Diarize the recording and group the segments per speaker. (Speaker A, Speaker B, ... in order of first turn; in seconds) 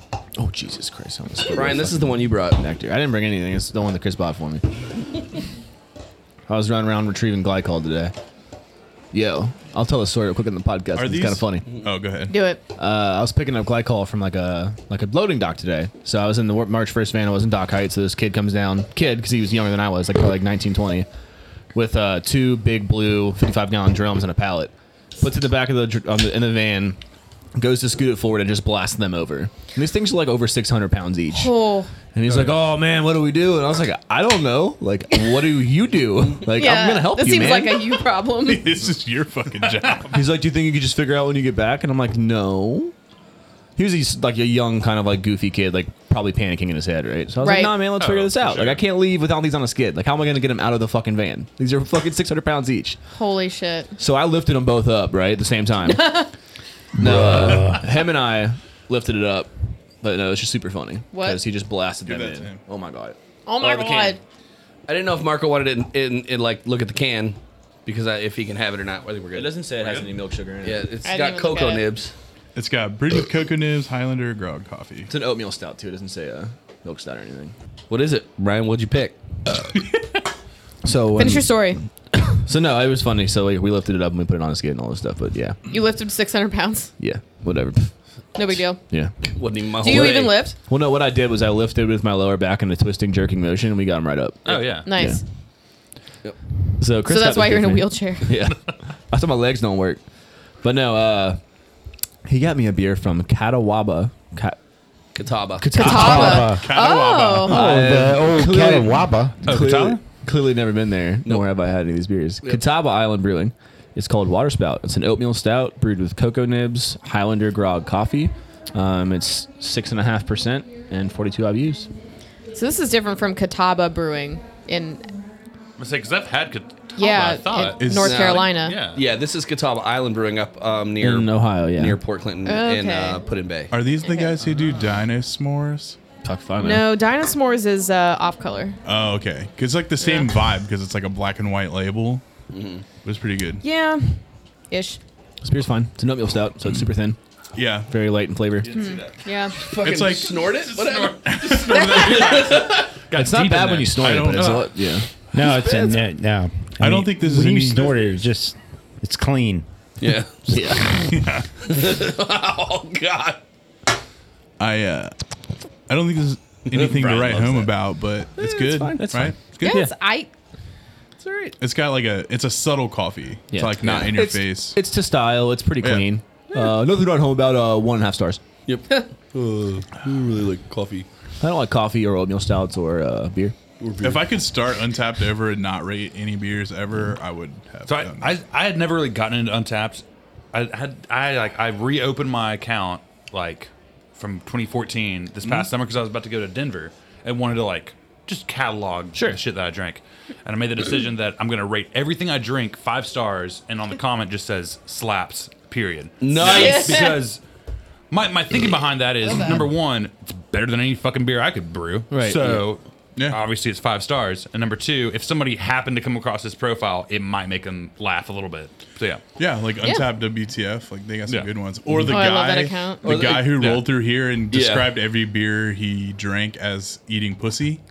Speaker A: 0.4-4.7, 6.5-8.1, 9.1-11.7, 12.8-21.1, 21.7-27.0, 27.6-31.5, 32.1-38.0, 40.1-42.9, 43.8-53.0, 54.0-56.3, 57.0-64.2, 69.3-70.8, 75.1-77.5, 80.8-85.6, 87.0-87.9, 88.9-89.2, 89.8-95.2, 96.8-100.0, 100.6-101.4, 102.2-104.6, 105.6-106.5, 107.5-121.9, 131.0-132.0, 136.2-136.9, 145.4-147.2, 147.9-148.9, 153.1-155.1, 160.5-161.0, 168.9-169.9, 173.5-178.4, 181.4-183.6, 199.1-199.4, 212.1-212.6
Speaker B: 1.5-2.6, 64.9-69.7, 70.6-72.1, 77.9-79.2, 89.3-90.5, 105.2-105.8, 128.0-133.7, 142.5-142.8, 149.5-152.9, 155.4-156.0, 160.0-161.0, 161.6-163.4, 166.7-167.7, 168.4-169.1, 171.2-171.6, 178.7-181.1, 183.8-184.3, 206.2-207.2, 223.0-223.7, 224.5-224.9
Speaker C: 10.9-12.3, 38.4-40.3, 62.1-62.6, 72.5-75.1, 105.8-107.7, 127.8-128.4, 133.7-136.0, 138.8-142.2, 143.0-143.6, 147.6-147.9, 149.7-152.5, 154.0-154.7, 156.8-158.1, 164.6-165.2, 165.9-169.8, 171.6-174.8, 175.8-176.1, 184.0-188.3, 219.4-227.8
Speaker D: 12.3-12.6, 31.3-31.9, 36.5-38.7, 47.4-47.8, 53.1-53.9, 55.9-56.3, 61.1-61.4, 63.5-64.2, 71.0-71.9, 81.2-81.8, 85.7-86.9, 88.3-88.8, 89.8-90.6, 94.8-95.2, 97.0-98.4, 105.8-107.6, 122.5-125.1, 127.0-128.8, 132.4-133.2, 134.0-134.3, 136.6-138.8, 140.0-140.3, 143.6-145.0, 148.7-149.6, 169.6-170.3, 206.4-207.2, 209.3-209.5, 222.1-223.1
Speaker E: 48.0-48.8, 94.5-94.9, 109.5-110.0, 125.8-127.9, 128.5-129.0, 134.4-134.8, 148.7-149.0, 150.8-154.7, 187.9-207.4, 208.1-219.2, 223.4-223.9
Speaker F: 57.0-57.8, 105.8-106.7, 107.5-109.4, 155.3-159.7